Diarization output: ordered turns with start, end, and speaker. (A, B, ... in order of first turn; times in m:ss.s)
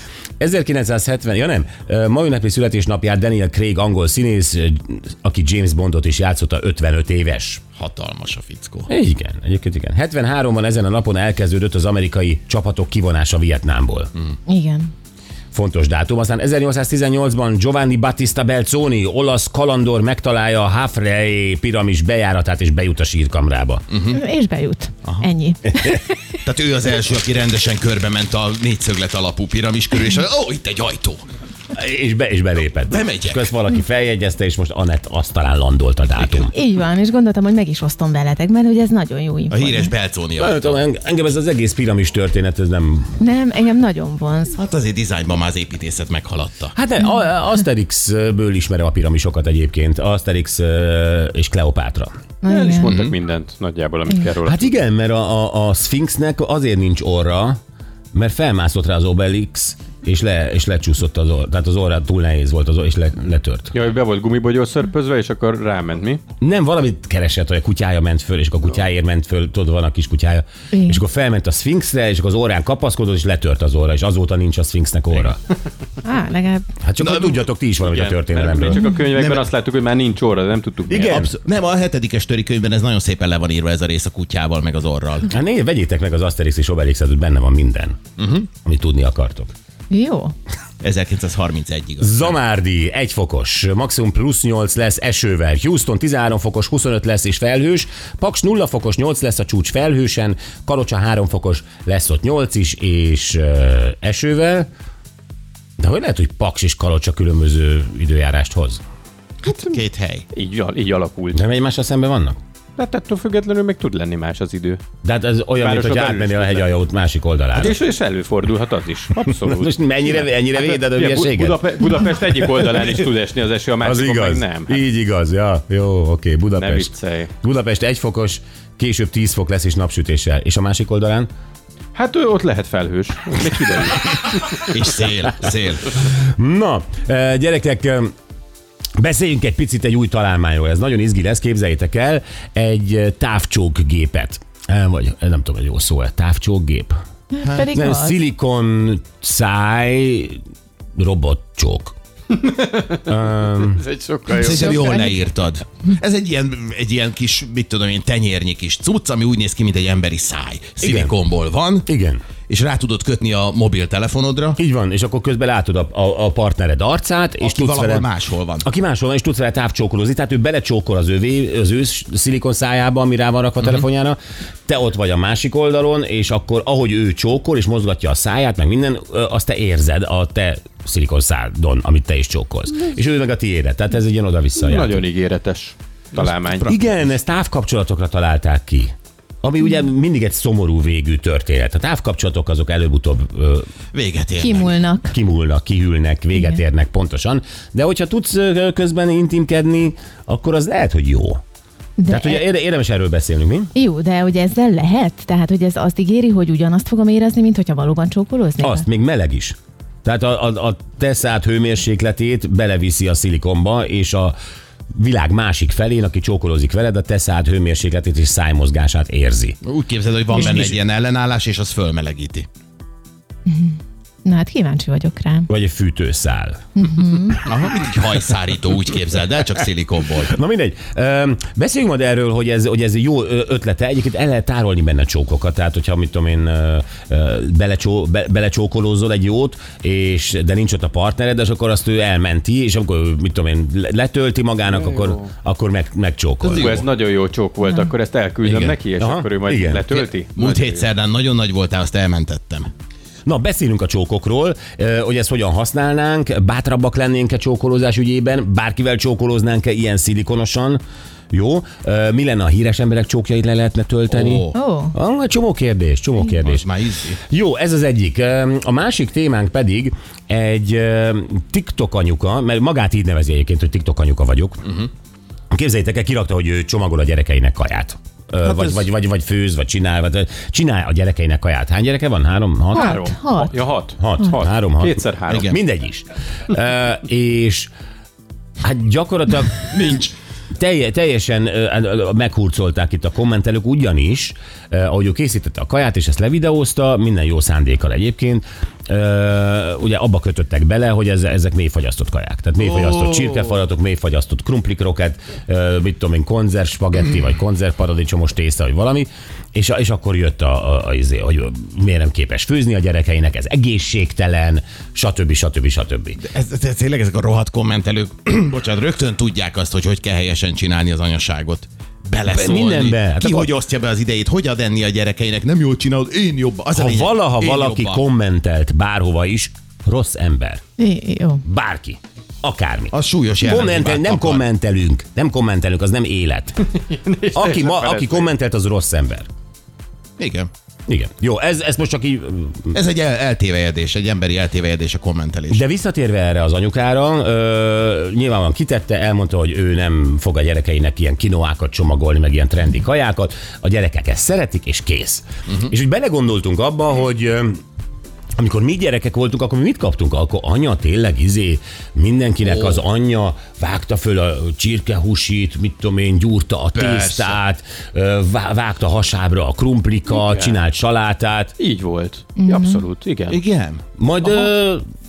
0:00.4-0:07.6 A
0:07.8-0:08.9 B
0:08.9-0:14.1 A
0:14.5-0:14.9 C
0:15.5-0:23.8 A
0:23.9-0:24.2 B
0:24.1-0:26.2 C
0:26.4-0:31.3 B
0:31.7-0:36.5 A
0:32.9-0:33.5 B
0:36.2-0:36.5 B
0:36.5-0:39.9 C
0:39.5-0:40.8 B
0:40.4-0:43.2 A
0:43.2-0:44.6 C
0:44.6-0:46.7 B
0:46.7-0:52.1 A
0:52.4-0:52.9 C
0:52.4-0:54.7 D
0:52.8-0:53.1 B
0:54.4-0:57.6 A
0:58.1-1:03.7 A
1:03.7-1:06.2 D
1:06.4-1:15.4 A
1:10.7-1:11.0 C
1:16.0-1:16.7 C
1:16.8-1:18.9 A
1:17.0-1:17.4 B
1:17.8-1:21.3 D
1:19.1-1:19.5 B
1:20.9-1:21.3 A
1:21.1-1:25.3 B
1:25.3-1:28.0 A
1:28.2-1:28.4 B
1:28.5-1:29.5 A
1:29.9-1:30.3 C
1:30.8-1:32.3 B
1:32.0-1:44.7 A
1:45.8-1:48.8 A
1:49.5-1:50.2 B
1:50.3-1:51.4 D
1:51.3-1:52.4 A
1:52.8-1:54.8 D
1:55.0-1:57.8 A
1:55.6-1:56.7 D
1:57.5-2:04.8 D
1:59.2-2:01.6 A
2:03.8-2:11.3 A
2:06.6-2:07.3 D
2:11.9-2:14.7 D
2:14.7-2:16.0 B
2:16.0-2:18.1 A
2:19.0-2:26.9 A
2:27.3-2:28.2 C
2:27.7-2:30.4 A
2:31.0-2:32.0 A
2:32.3-2:35.0 D
2:33.1-2:33.8 A
2:34.3-2:41.9 B
2:34.4-2:35.2 C
2:40.8-2:41.1 A
2:41.8-2:42.2 A
2:42.5-2:44.6 B
2:44.6-2:48.1 A
2:47.4-2:48.6 B
2:48.6-3:05.0 A
3:04.6-3:06.7 D
3:06.1-3:07.1 B
3:06.6-3:08.9 A
3:09.4-3:13.7 A
3:13.9-3:14.8 B
3:14.4-3:15.1 C
3:15.1-3:21.4 A
3:22.0-3:22.4 C
3:22.1-3:23.7 A
3:23.7-3:28.8 C
3:28.6-3:34.3 A
3:34.9-3:39.6 A
3:39.6-3:42.5 B
3:40.3-3:40.8 A
3:43.5-3:45.5 C
3:45.5-3:46.6 A
3:46.8-3:47.4 C
3:47.4-3:50.3 B
3:50.2-4:06.8 A
4:04.7-4:05.3 D
4:06.4-4:06.8 B
4:06.4-4:10.9 D
4:07.6-4:07.9 C
4:08.4-4:09.8 A
4:09.9-4:12.7 B
4:13.2-4:26.7 A
4:24.1-4:24.5 B
4:24.5-4:24.9 C
4:26.4-4:27.2 B
4:27.3-4:34.7 A
4:35.5-4:47.7 A
4:38.4-4:38.8 B
4:42.7-4:45.5 D
4:42.7-4:43.5 C
4:45.3-4:45.6 B
4:48.6-4:49.7 A
4:49.6-4:50.1 B
4:50.6-5:16.2 A
5:02.6-5:03.4 B
5:16.2-5:28.0 B
5:22.2-5:23.5 A
5:26.7-5:30.6 A
5:30.8-5:31.4 C
5:31.4-5:36.7 A
5:32.9-5:34.4 B
5:36.7-5:38.3 D
5:37.3-5:39.3 A
5:40.2-5:40.5 B
5:40.9-5:42.8 A
5:42.7-5:45.6 B
5:45.5-5:57.6 A
5:58.4-6:11.5 A
6:02.4-6:02.8 B
6:06.7-6:07.4 B
6:10.1-6:10.6 D
6:11.6-6:13.4 D
6:12.4-6:12.8 C
6:13.3-6:13.8 B
6:14.0-6:14.8 A